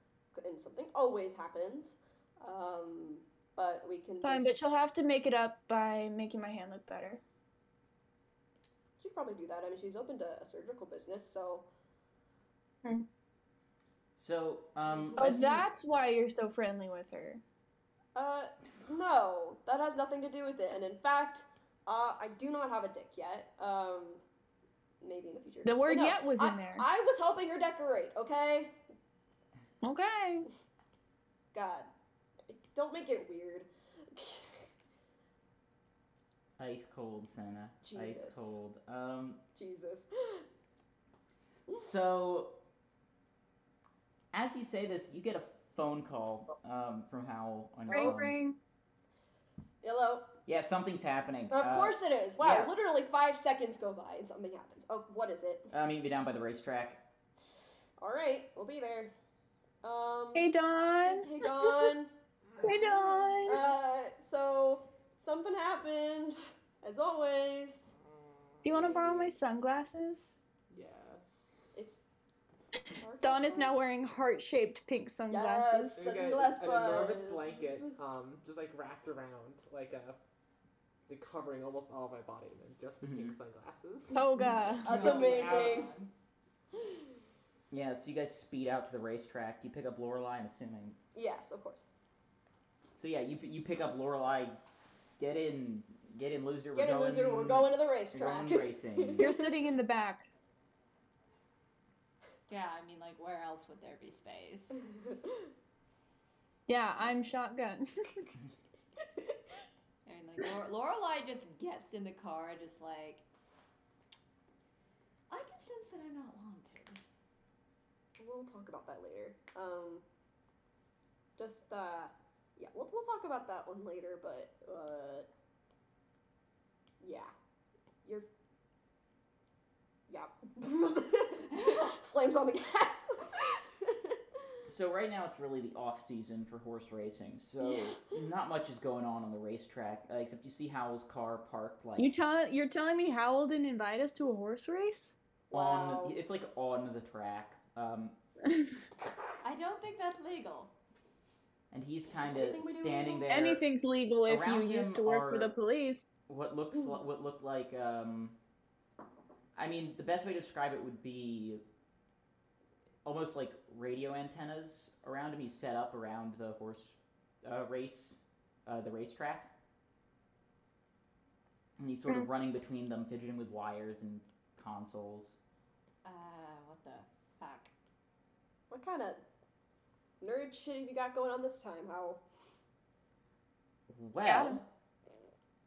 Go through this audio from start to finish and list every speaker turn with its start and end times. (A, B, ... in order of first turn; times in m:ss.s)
0:00.3-0:04.6 A
0:04.2-0:07.2 B
0:09.0-0:11.7 A
0:14.2-0:15.6 C
0:15.2-0:17.4 B
0:18.1-0:24.2 A
0:25.0-0:28.8 A
0:25.6-0:26.8 B
0:29.8-0:30.5 B
0:31.5-0:31.9 A
0:32.5-0:34.6 A
0:36.6-0:39.4 C
0:37.8-0:38.5 A
0:39.5-0:40.4 A
0:41.7-0:42.6 C
0:44.3-0:48.4 C
0:47.9-0:48.6 B
0:49.8-0:50.3 A
0:50.5-0:52.7 C
0:51.5-0:55.7 A
0:55.7-0:57.0 C
0:58.0-0:59.1 A
0:59.8-1:00.5 A
1:00.3-1:01.9 B
1:01.0-1:02.1 A
1:02.5-1:03.3 D
1:02.6-1:03.7 B
1:03.4-1:07.9 A
1:08.6-1:09.2 D
1:08.6-1:10.3 B
1:10.7-1:11.8 D
1:11.7-1:12.0 A
1:13.0-1:13.8 A
1:13.2-1:16.0 B
1:15.3-1:17.7 A
1:15.9-1:20.2 D
1:21.1-1:25.9 D
1:23.0-1:23.4 C
1:24.1-1:25.0 B
1:24.8-1:25.9 A
1:24.9-1:26.0 E
1:27.7-1:31.0 C
1:31.1-1:31.9 A
1:33.0-1:34.6 C
1:35.2-1:39.3 C
1:36.7-1:39.5 A
1:39.2-1:40.2 B
1:42.5-1:44.8 E
1:46.7-1:48.3 B
1:50.0-1:53.2 E
1:55.3-1:57.0 E
1:58.2-2:00.0 A
2:01.4-2:05.3 A
2:07.0-2:07.3 A
2:10.1-2:14.2 A
2:14.7-2:22.1 C
2:17.6-2:17.9 A
2:22.0-2:25.2 B
2:25.5-2:26.2 A
2:25.5-2:28.2 C
2:29.4-2:30.7 E
2:31.7-2:33.7 C
2:32.2-2:33.4 A
2:33.3-2:36.0 B
2:34.2-2:35.5 C
2:36.3-2:38.4 C
2:39.5-2:41.6 C
2:43.0-2:49.5 C
2:51.8-2:55.4 C
2:56.0-2:57.7 E
2:58.7-2:59.2 A
3:00.2-3:02.2 A
3:03.9-3:04.6 C
3:04.2-3:04.6 B